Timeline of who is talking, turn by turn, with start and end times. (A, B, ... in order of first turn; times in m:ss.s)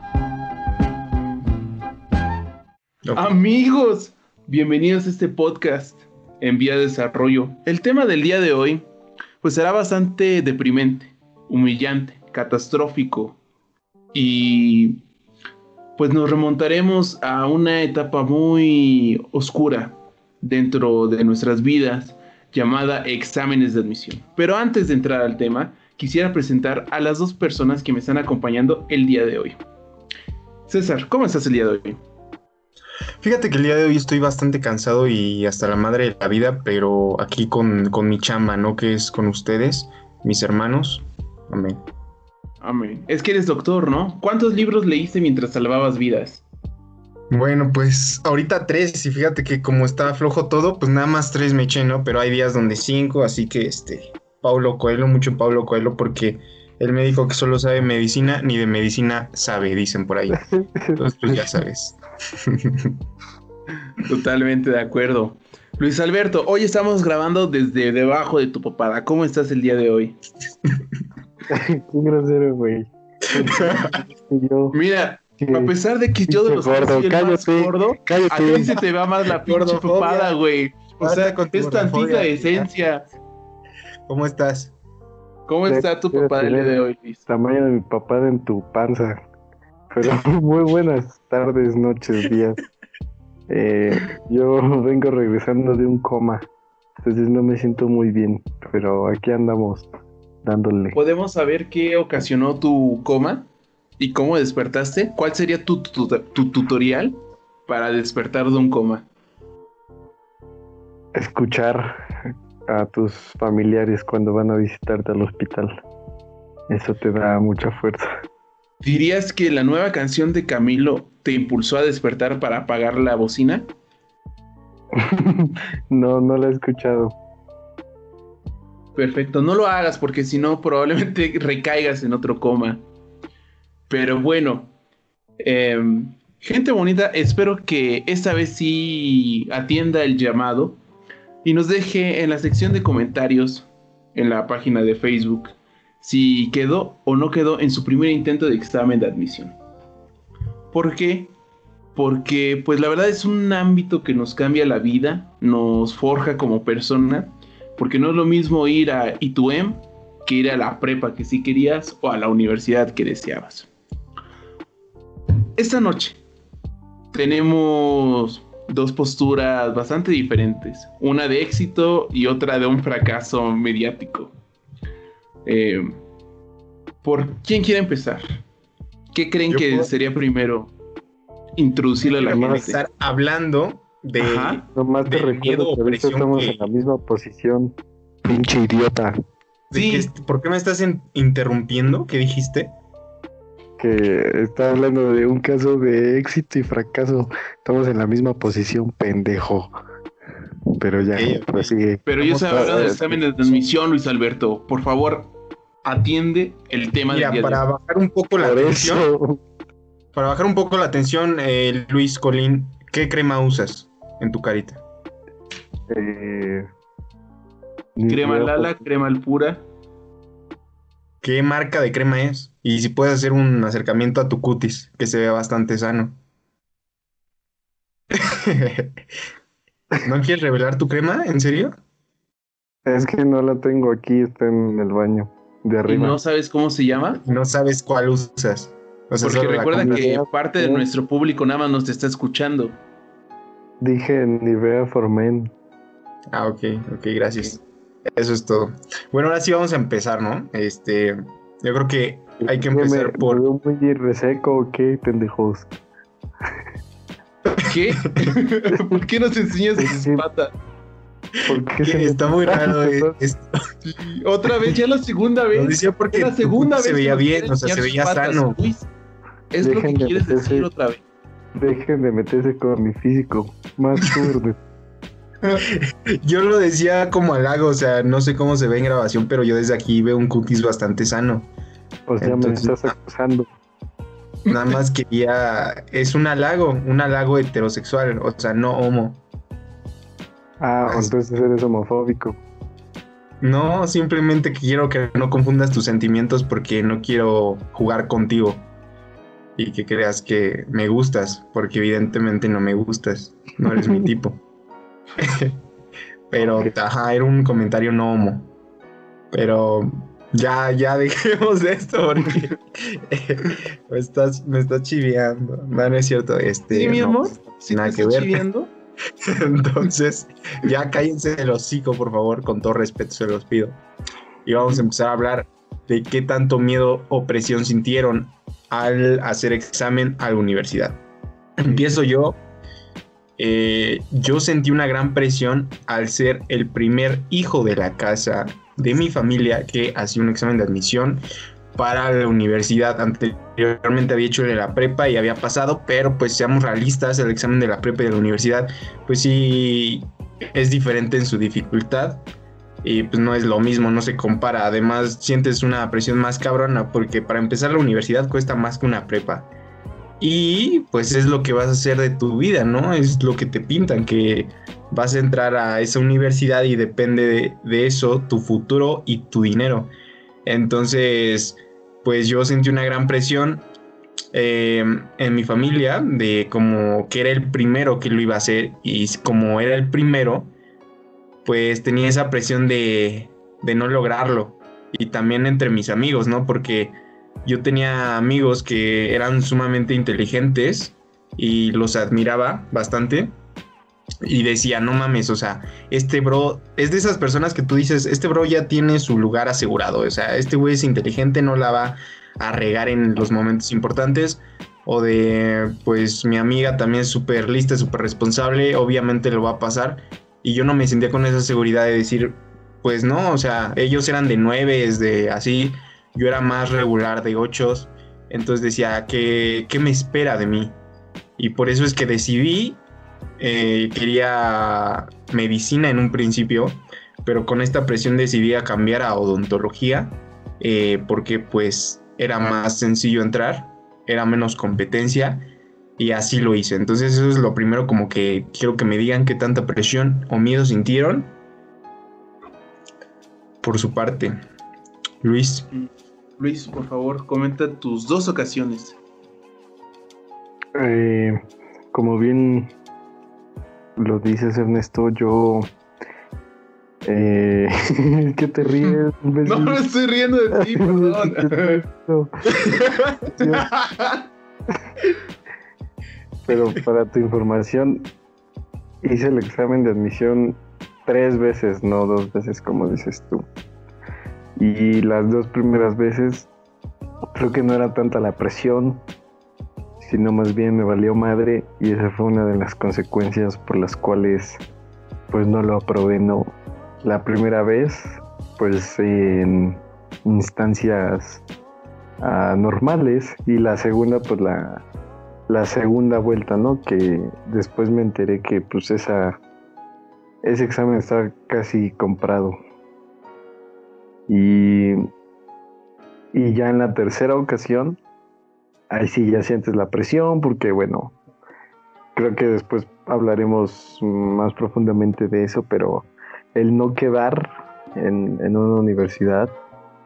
0:03.1-0:03.3 A
0:03.1-0:08.8 B
0:09.4-0:13.4 B
0:14.1-0:15.0 B
0:16.0-0:29.6 B
0:30.7-0:32.0 B
0:33.2-0:41.8 A
0:42.6-0:46.4 B
0:47.3-1:03.0 A
1:00.4-1:01.5 C
1:04.0-1:10.2 B
1:11.5-1:14.8 C
1:13.3-1:13.9 A
1:14.7-1:23.0 B
1:15.4-1:15.7 C
1:16.3-1:18.8 C
1:18.5-1:18.8 A
1:19.4-1:20.3 A
1:21.0-1:22.7 A
1:24.1-1:24.7 A
1:25.5-1:27.2 B
1:25.7-1:29.2 C
1:29.9-1:32.6 C
1:33.5-1:36.5 C
1:37.0-1:39.9 C
1:40.4-1:41.0 C
1:40.9-1:43.5 B
1:44.0-1:49.0 B
1:51.1-1:52.0 C
1:52.7-1:55.8 C
1:56.7-1:58.1 C
1:58.8-2:03.7 B
2:04.9-2:07.1 C
2:08.9-2:12.8 B
2:13.9-2:14.7 B
2:15.4-2:20.8 B
2:21.4-2:29.5 B
2:30.7-2:31.3 B
2:31.9-2:43.7 B
2:45.6-2:46.2 B
2:47.1-2:54.3 B
2:55.4-2:56.0 B
2:57.0-2:58.4 B
2:59.1-3:00.7 B
2:59.5-2:59.9 A
3:01.6-3:02.8 B
3:02.1-3:06.6 A
3:02.4-3:02.7 C
3:04.2-3:04.6 B
3:04.7-3:09.2 C
3:09.7-3:12.8 A
3:09.7-3:10.1 B
3:13.8-3:19.7 C
3:20.8-3:23.6 C
3:21.1-3:23.0 A
3:22.1-3:25.3 B
3:25.8-3:27.6 B
3:27.1-3:29.1 A
3:28.4-3:29.4 C
3:30.1-3:34.8 A
3:35.9-3:36.7 C
3:38.0-3:38.8 C
3:38.1-3:39.6 B
3:41.2-3:46.2 A
3:48.1-3:48.9 A
3:50.0-3:51.8 A
3:52.8-3:56.2 C
3:55.9-3:57.2 B
3:57.2-4:00.1 A
3:59.2-4:02.8 B
3:59.8-4:00.9 C
4:03.8-4:05.5 C
4:06.3-4:07.6 A
4:08.1-4:13.4 A
4:12.4-4:15.7 C
4:17.6-4:20.5 B
4:18.1-4:18.4 A
4:19.8-4:20.2 C
4:21.5-4:23.2 C
4:21.5-4:23.4 A
4:23.8-4:28.9 B
4:25.5-4:28.6 A
4:29.5-4:31.0 B
4:29.6-4:30.7 C
4:31.6-4:34.6 C
4:35.5-4:41.5 A
4:42.1-4:43.5 C
4:42.2-4:42.9 A
4:44.4-4:44.8 B
4:44.5-4:49.2 A
4:50.6-4:52.4 C
4:53.4-4:58.6 A
4:59.6-5:04.4 A
5:05.2-5:05.6 A
5:06.3-5:08.5 A
5:09.3-5:18.4 A
5:16.7-5:18.7 B
5:19.2-5:23.8 A
5:24.4-5:31.0 A
5:31.6-5:32.4 A
5:33.4-5:41.2 A
5:41.8-5:52.2 A
5:52.8-5:59.5 A
6:00.2-6:09.9 A
6:10.4-6:13.6 A
6:14.3-6:20.5 A
6:21.4-6:33.3 A
6:34.2-7:00.8 A
7:01.4-7:02.8 A
7:03.4-7:15.4 A
7:16.0-7:21.3 A
7:23.6-7:24.4 A
7:25.2-7:25.7 A
7:26.4-7:29.0 B
7:30.8-7:31.4 C
7:31.9-7:32.7 C
7:34.0-7:35.7 C
7:37.1-7:39.8 C
7:39.4-7:41.8 B
7:40.6-7:42.3 C
7:42.5-7:44.2 B
7:43.4-7:43.7 C
7:46.4-7:48.1 C
7:49.0-7:53.4 C
7:54.6-7:56.5 C
7:57.3-7:59.0 C
8:00.0-8:04.6 C
8:05.3-8:11.4 C
8:12.2-8:14.8 C
8:15.5-8:19.4 C
8:20.4-8:22.6 C
8:24.3-8:25.1 C
8:26.3-8:28.0 C
8:28.9-8:31.1 C
8:32.1-8:39.5 C